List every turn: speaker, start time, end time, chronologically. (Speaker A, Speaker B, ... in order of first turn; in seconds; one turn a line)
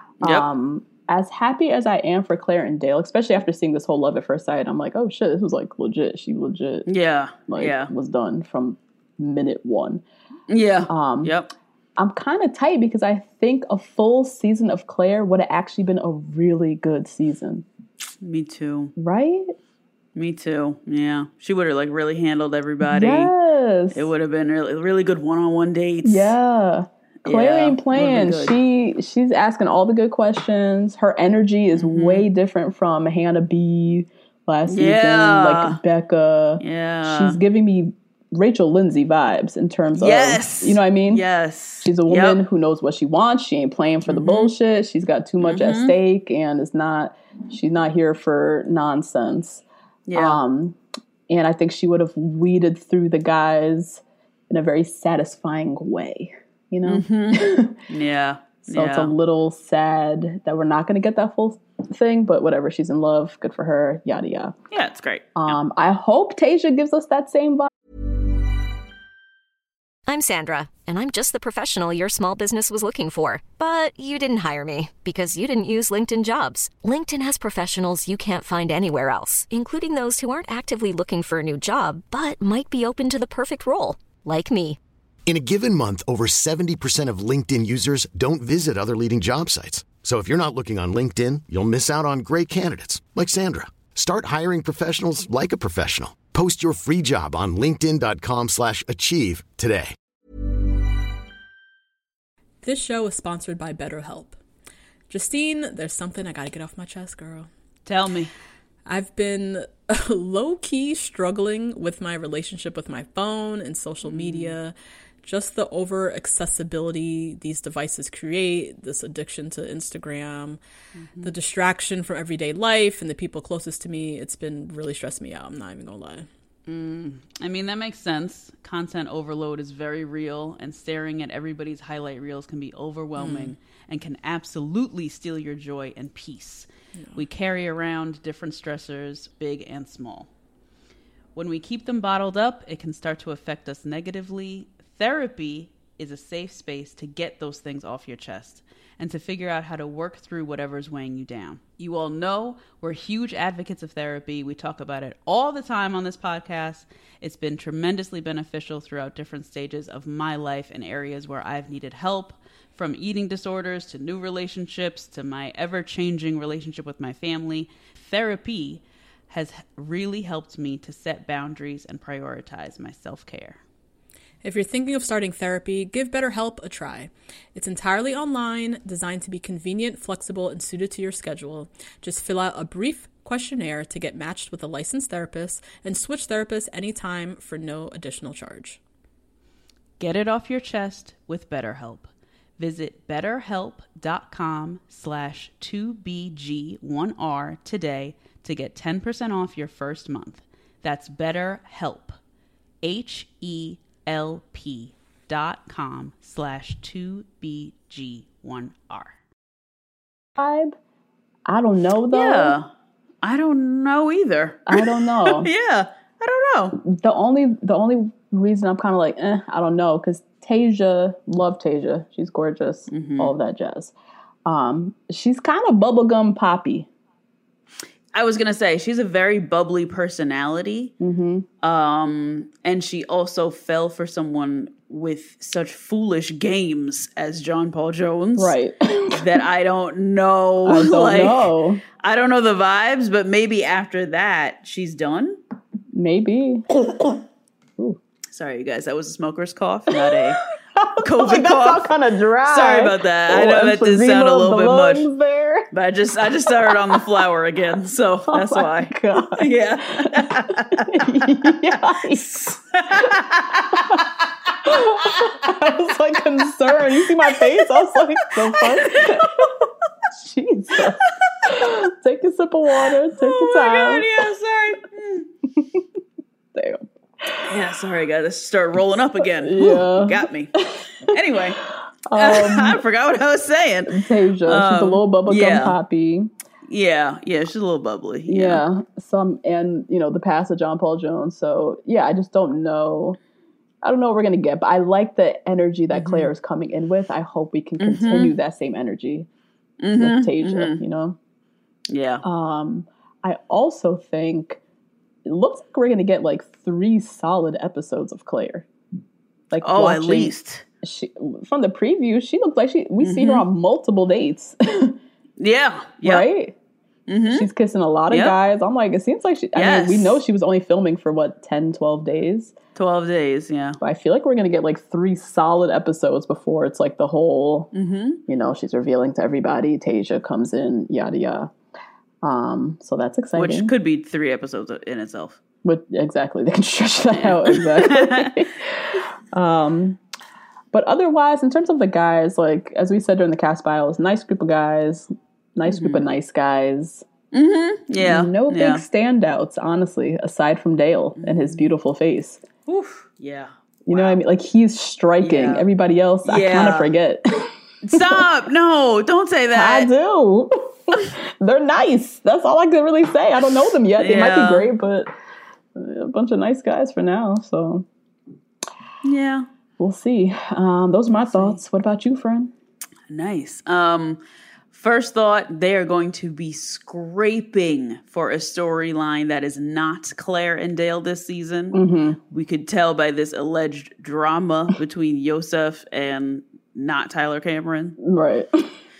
Speaker A: 0.2-6.9
Speaker B: 6.8-7.9
Speaker A: 7.5-10.0
Speaker B: 10.5-11.5
Speaker A: 10.9-11.3
Speaker A: 12.0-17.6
Speaker B: 18.2-18.9
Speaker A: 19.0-19.5
Speaker B: 20.1-23.3
Speaker A: 22.8-24.1
Speaker B: 23.9-26.3
Speaker A: 26.0-41.2
Speaker B: 27.2-28.6
Speaker B: 31.7-32.3
Speaker B: 34.7-35.8
Speaker B: 36.6-37.4
Speaker B: 40.0-42.4
Speaker A: 41.8-50.8
Speaker B: 44.1-44.5
Speaker B: 45.4-45.9
Speaker B: 50.1-50.4
Speaker A: 51.3-57.8
Speaker B: 56.9-59.1
Speaker A: 58.7-64.5
Speaker B: 64.7-65.6
Speaker A: 65.3-67.7
Speaker C: 70.1-84.8
Speaker D: 85.3-99.9
Speaker E: 102.6-104.4
Speaker E: 105.1-107.5
Speaker B: 107.8-108.3
Speaker E: 108.9-114.7
Speaker B: 114.0-114.6
Speaker E: 115.2-120.6
Speaker B: 121.0-121.3
Speaker E: 121.2-126.3
Speaker B: 126.7-140.3
Speaker E: 133.2-133.5
Speaker B: 141.3-173.6
Speaker E: 174.4-188.8
Speaker B: 190.0-202.1
Speaker B: 202.8-209.2
Speaker A: 210.4-210.7
Speaker A: 211.5-212.6
Speaker B: 212.1-212.7
Speaker B: 213.2-216.8
Speaker A: 214.7-215.5
Speaker A: 216.8-223.9
Speaker B: 222.9-223.3
Speaker A: 224.4-226.9
Speaker B: 228.1-230.9
Speaker A: 231.0-231.4
Speaker B: 231.6-238.6
Speaker A: 238.3-239.2
Speaker B: 239.1-245.4
Speaker A: 240.6-241.8
Speaker A: 245.9-247.2
Speaker B: 248.3-250.4
Speaker A: 250.0-255.7
Speaker B: 251.0-255.1
Speaker B: 255.7-260.8
Speaker A: 256.6-257.0
Speaker A: 258.3-262.4
Speaker B: 261.7-265.5
Speaker A: 264.6-269.5
Speaker B: 267.3-267.6
Speaker B: 268.6-269.5
Speaker A: 270.1-274.1
Speaker B: 273.1-275.3
Speaker A: 275.6-275.8
Speaker A: 276.5-277.4
Speaker B: 277.4-280.5
Speaker A: 279.4-280.8
Speaker B: 281.1-281.6
Speaker A: 282.1-282.8
Speaker B: 282.1-285.8
Speaker A: 283.9-286.3
Speaker B: 286.6-288.6
Speaker A: 288.3-293.2
Speaker A: 293.8-299.3
Speaker B: 295.9-296.3
Speaker B: 297.8-298.4
Speaker B: 299.8-300.8
Speaker A: 300.0-301.2
Speaker B: 301.9-302.2
Speaker A: 302.2-304.6
Speaker A: 305.2-308.7
Speaker A: 309.5-315.0
Speaker B: 309.6-310.6
Speaker B: 313.0-313.5
Speaker B: 315.4-316.3
Speaker A: 316.0-316.6
Speaker B: 317.1-317.5
Speaker A: 317.3-322.5
Speaker B: 318.1-318.4
Speaker B: 319.5-320.2
Speaker B: 322.8-323.8
Speaker A: 323.8-327.7
Speaker B: 327.7-328.2
Speaker A: 328.3-331.5
Speaker A: 332.2-333.7
Speaker B: 333.4-335.4
Speaker A: 335.6-338.7
Speaker B: 337.5-338.3
Speaker A: 339.3-340.0
Speaker A: 340.7-347.1
Speaker B: 345.7-346.0
Speaker B: 347.3-348.8
Speaker A: 348.0-352.4
Speaker B: 351.2-351.7
Speaker B: 352.7-354.2
Speaker A: 353.9-358.2
Speaker B: 355.2-355.7
Speaker B: 356.2-356.9
Speaker B: 357.9-359.9
Speaker A: 359.5-365.1
Speaker B: 364.0-364.7
Speaker A: 365.8-367.9
Speaker B: 369.0-369.5
Speaker A: 369.8-372.5
Speaker B: 371.1-371.6
Speaker B: 373.1-381.8
Speaker A: 381.7-382.2
Speaker B: 382.3-388.0
Speaker A: 388.0-388.7